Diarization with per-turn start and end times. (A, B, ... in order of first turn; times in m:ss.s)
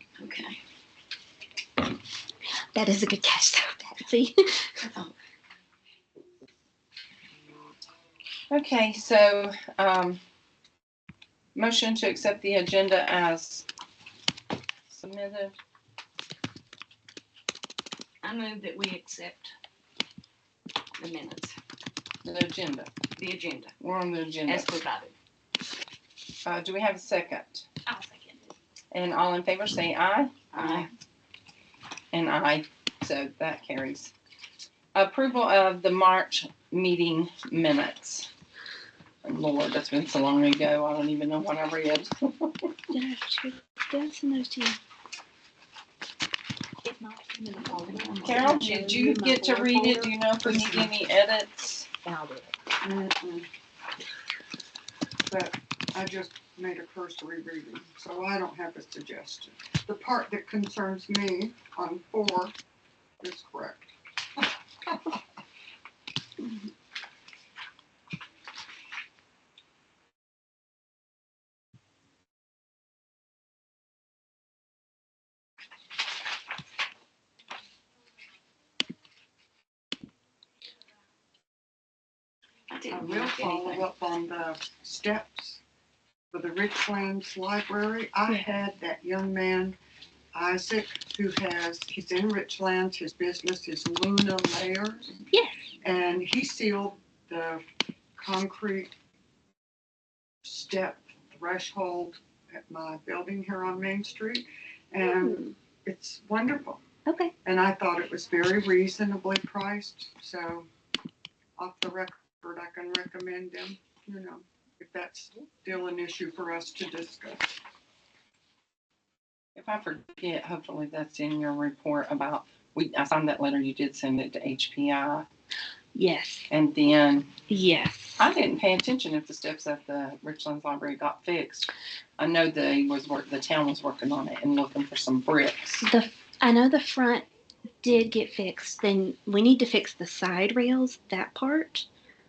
0:00.2-0:00.6 A
0:02.7-0:04.7 B
0:04.9-0:05.1 A
0:08.5-0:10.2 C
0:11.5-0:13.6 C
0:14.9-0:15.6 C
0:18.2-0:19.5 A
0:21.0-0:21.6 A
0:22.2-0:22.9 C
0:23.1-0:23.7 A
0:23.8-0:24.7 C
0:24.4-0:25.1 A
0:26.4-0:27.7 C
0:27.9-0:28.4 B
0:28.9-0:30.9 C
0:30.5-0:30.9 A
0:32.1-0:34.1 C
0:34.9-0:38.3 C
0:39.2-0:42.7 C
0:42.9-0:44.8 B
0:46.8-0:50.9 B
0:47.5-0:48.9 A
0:48.2-0:51.9 C
0:52.0-0:52.6 B
0:52.8-0:53.5 D
0:55.3-1:02.6 D
1:03.2-1:05.2 D
1:22.7-1:23.8 A
1:22.9-1:25.6 D
1:26.3-1:29.8 D
1:30.3-1:35.2 D
1:35.3-1:35.6 B
1:35.8-1:37.6 D
1:38.2-1:38.9 D
1:40.4-1:46.8 D
1:45.0-1:45.5 B
1:47.0-1:47.3 B
1:47.4-1:50.7 D
1:51.6-1:57.5 D
1:59.5-2:05.2 C
2:05.9-2:06.5 B
2:06.5-2:07.3 C
2:07.5-2:08.3 B
2:08.2-2:15.8 C
2:15.8-2:17.3 B
2:17.8-2:21.8 B